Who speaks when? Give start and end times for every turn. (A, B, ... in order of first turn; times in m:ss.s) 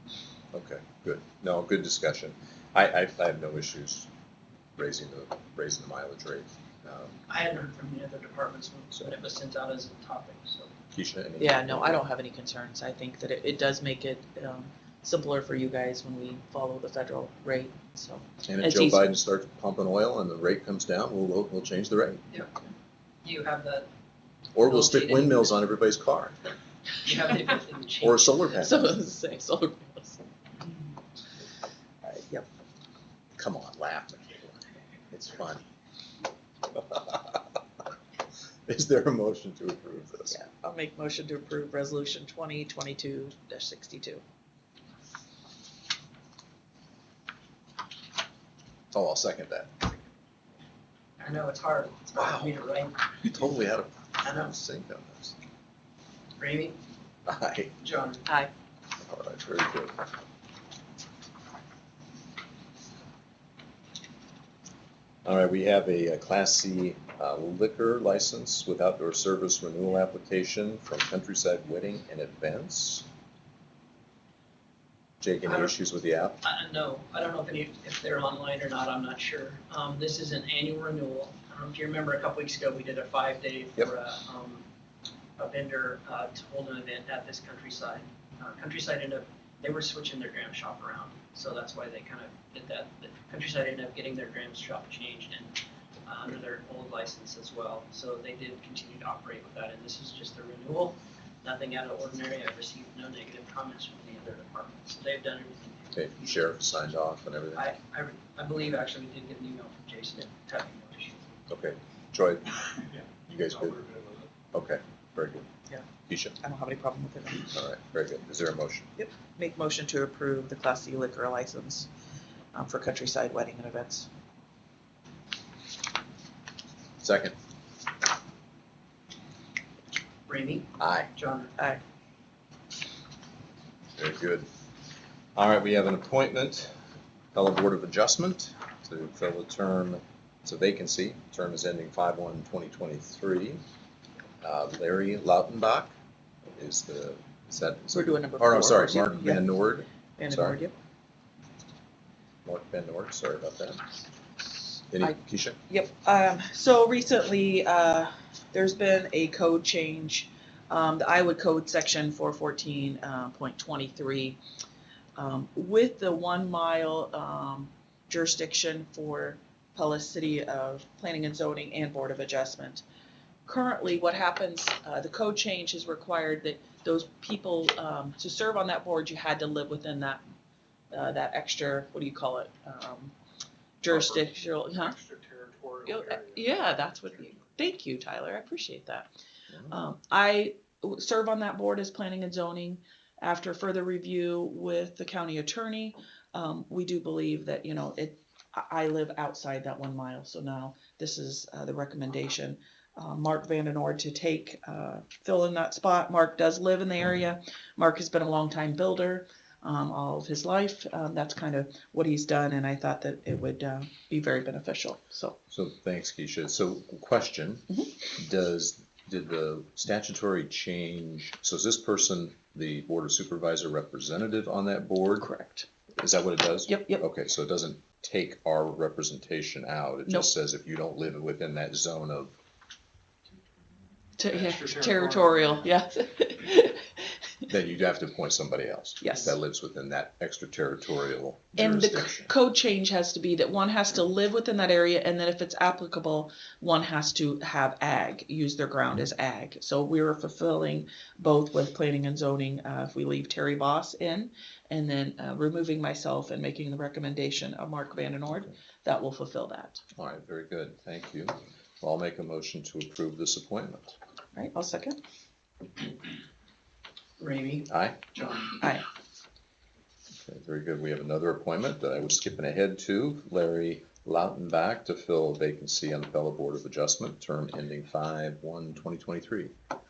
0:00.5-0:04.1 A
0:04.8-0:07.2 A
0:07.3-0:10.7 B
0:08.9-0:09.2 A
0:10.9-0:12.0 A
0:11.4-0:19.1 C
0:18.4-0:22.2 A
0:22.3-0:22.6 B
0:23.2-0:23.9 B
0:24.5-0:26.4 A
0:24.6-0:25.5 B
0:27.0-0:28.7 B
0:28.0-0:28.9 A
0:28.6-0:30.2 C
0:32.0-0:32.4 C
0:33.4-0:34.6 A
0:35.1-0:35.6 A
0:36.7-0:37.6 A
0:38.7-0:40.4 A
0:40.3-0:44.2 C
0:48.9-0:49.9 A
0:51.2-0:53.1 B
0:52.2-0:52.6 A
0:53.2-0:55.4 A
0:54.2-0:54.5 B
0:56.4-0:56.8 B
0:57.2-0:57.7 A
0:57.8-0:58.3 B
0:59.0-0:59.9 A
1:05.2-1:13.1 A
1:15.2-1:16.4 A
1:15.4-1:15.7 B
1:16.4-1:24.6 B
1:25.4-1:35.5 B
1:36.0-1:46.4 B
1:45.9-1:47.7 A
1:47.5-1:51.4 B
1:51.5-1:52.7 A
1:53.3-1:53.9 A
1:53.6-1:54.2 D
1:54.5-1:55.4 A
1:56.1-1:56.4 A
1:56.4-1:57.5 C
1:57.5-1:58.9 A
1:59.0-2:01.9 C
2:02.5-2:04.1 C
2:07.0-2:07.4 A
2:10.3-2:11.5 B
2:10.8-2:11.1 A
2:14.0-2:14.5 A
2:15.4-2:16.7 A
2:17.3-2:23.6 A
2:24.4-2:25.9 A
2:26.6-2:30.6 A
2:27.9-2:29.4 C
2:30.2-2:30.7 C
2:32.4-2:33.8 A
2:34.9-2:35.6 A
2:35.0-2:44.4 C
2:45.2-2:52.8 C
2:53.4-3:00.2 C
3:00.9-3:03.1 C
3:03.8-3:04.9 C
3:03.9-3:07.0 D
3:05.8-3:09.1 C
3:09.7-3:35.4 C
3:35.5-3:45.3 A
3:45.2-3:45.7 C
3:46.0-3:52.3 A
3:46.7-3:47.0 C
3:54.2-3:57.0 C
3:54.2-3:55.6 D
3:57.5-4:02.3 A
3:59.0-3:59.3 C
4:01.6-4:19.8 C
4:20.0-4:23.9 A
4:24.3-4:25.0 C
4:27.2-4:28.6 B
4:27.7-4:28.0 A
4:30.2-4:39.5 A